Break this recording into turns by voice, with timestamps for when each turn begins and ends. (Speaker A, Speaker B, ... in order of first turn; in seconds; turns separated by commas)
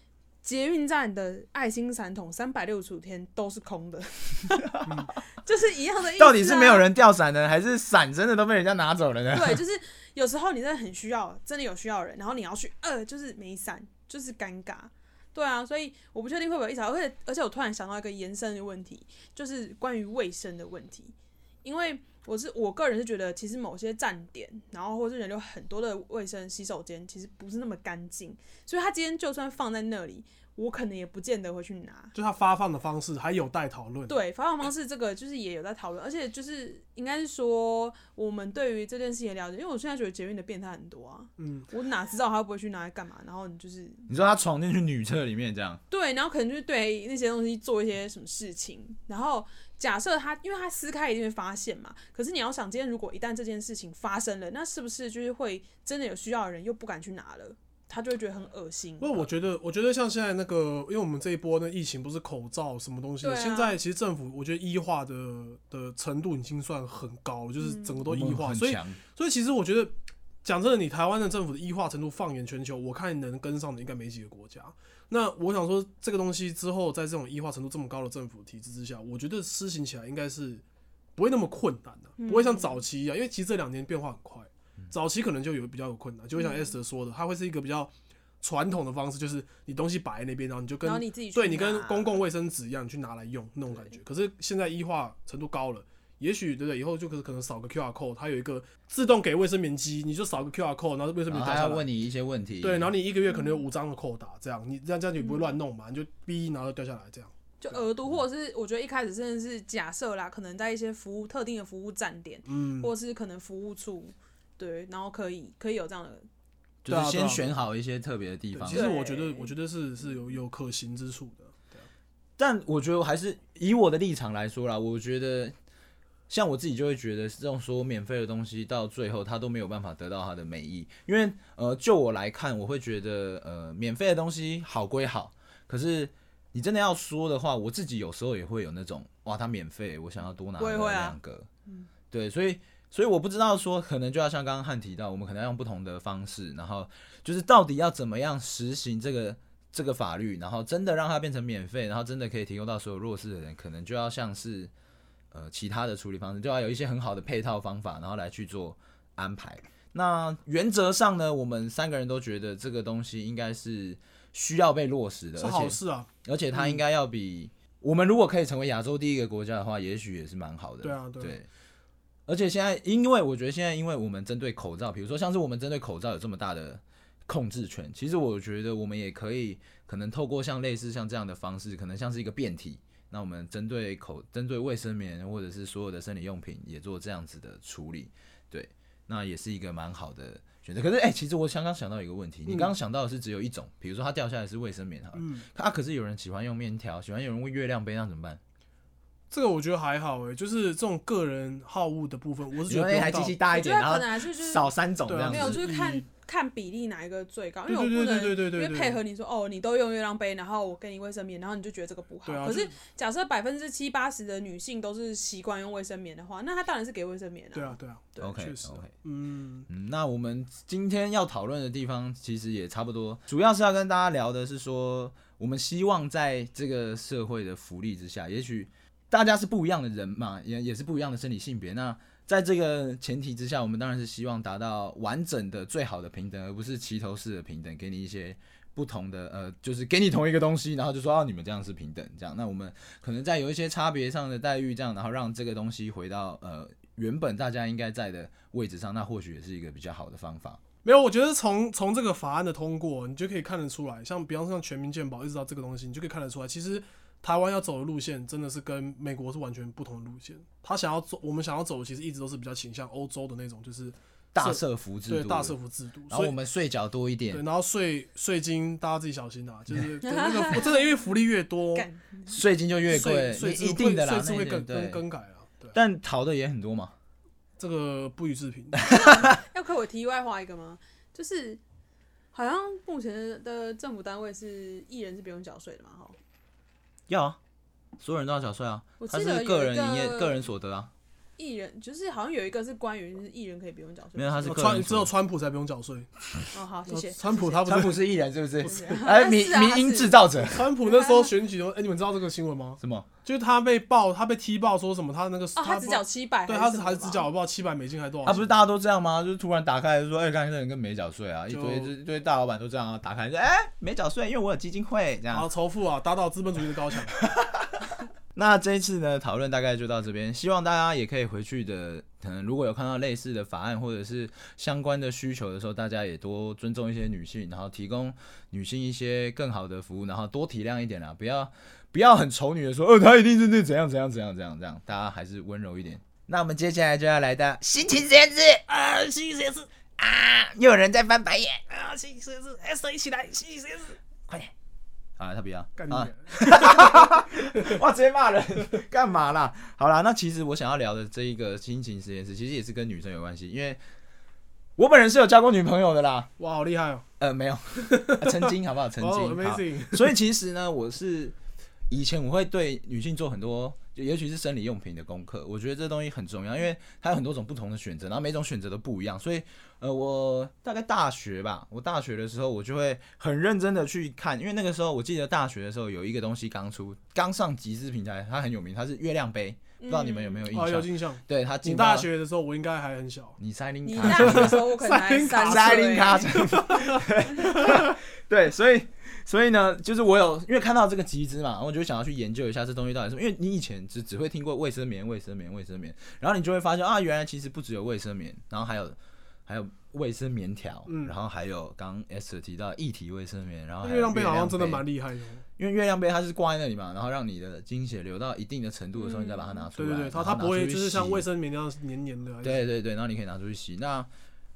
Speaker A: 0.4-6.8, Speaker B: 6.2-9.6, Speaker A: 9.3-32.1, Speaker C: 32.1-34.1, Speaker A: 34.1-44.0, Speaker C: 41.4-41.7, Speaker B: 44.1-45.8, Speaker A: 45.9-59.2, Speaker C: 59.0-80.6, Speaker A: 63.2-63.8, Speaker A: 67.6-68.0, Speaker B: 68.0-69.0, Speaker C: 81.2-101.8, Speaker A: 82.2-82.8, Speaker A: 86.4-86.7, Speaker A: 90.8-92.2, Speaker B: 101.3-102.9, Speaker C: 102.6-107.8, Speaker A: 103.3-103.5, Speaker A: 105.2-105.5, Speaker A: 107.6-116.2, Speaker C: 112.5-112.9, Speaker B: 116.8-118.9, Speaker C: 116.9-117.5, Speaker C: 118.5-121.9, Speaker A: 118.7-119.5, Speaker B: 122.4-125.5, Speaker B: 126.3-141.5, Speaker A: 140.6-141.2, Speaker B: 142.1-154.7, Speaker B: 155.3-171.5, Speaker C: 165.4-166.8, Speaker C: 170.8-171.4, Speaker B: 172.3-198.4, Speaker C: 192.5-192.7, Speaker C: 195.2-195.4, Speaker C: 199.3-203.3, Speaker B: 202.7-205.6, Speaker A: 203.5-204.7, Speaker C: 205.1-206.0, Speaker A: 205.2-218.3, Speaker C: 207.7-209.0, Speaker C: 212.2-212.7, Speaker C: 217.5-219.7, Speaker B: 218.2-218.9, Speaker B: 219.7-250.6, Speaker C: 250.8-266.3, Speaker B: 264.3-265.6, Speaker B: 266.1-267.4, Speaker C: 267.3-271.9, Speaker A: 270.0-271.0, Speaker A: 271.7-272.4, Speaker B: 272.3-275.0, Speaker C: 272.9-275.8, Speaker B: 275.7-276.9, Speaker C: 277.6-278.9, Speaker B: 278.8-279.3, Speaker A: 278.9-281.6, Speaker A: 282.3-286.2, Speaker B: 287.1-287.4, Speaker B: 288.0-290.9, Speaker A: 289.0-290.4, Speaker A: 291.4-294.7, Speaker B: 294.1-295.1, Speaker C: 294.4-296.1, Speaker A: 296.5-297.6, Speaker C: 296.9-298.0, Speaker B: 297.6-300.6, Speaker A: 298.6-300.2, Speaker C: 298.6-299.0, Speaker C: 300.5-308.5, Speaker A: 300.8-301.3, Speaker B: 302.8-303.1, Speaker A: 305.6-307.3, Speaker B: 308.2-315.5, Speaker C: 311.5-311.9, Speaker C: 315.3-317.1, Speaker B: 317.2-317.6, Speaker B: 318.3-338.7, Speaker C: 338.7-339.7, Speaker B: 340.1-341.6, Speaker C: 341.7-343.9, Speaker B: 345.2-353.8, Speaker C: 345.8-347.8, Speaker B: 354.8-356.3, Speaker C: 356.4-357.0, Speaker B: 357.2-361.3, Speaker C: 357.9-360.1, Speaker B: 361.9-382.1, Speaker A: 379.8-380.4, Speaker C: 380.5-383.4, Speaker B: 383.4-384.6, Speaker A: 383.8-386.6, Speaker C: 384.0-387.9, Speaker B: 385.4-404.8, Speaker C: 400.9-401.1, Speaker C: 403.8-405.4, Speaker B: 405.6-411.2, Speaker A: 409.0-409.6, Speaker C: 409.8-412.6, Speaker B: 412.4-414.1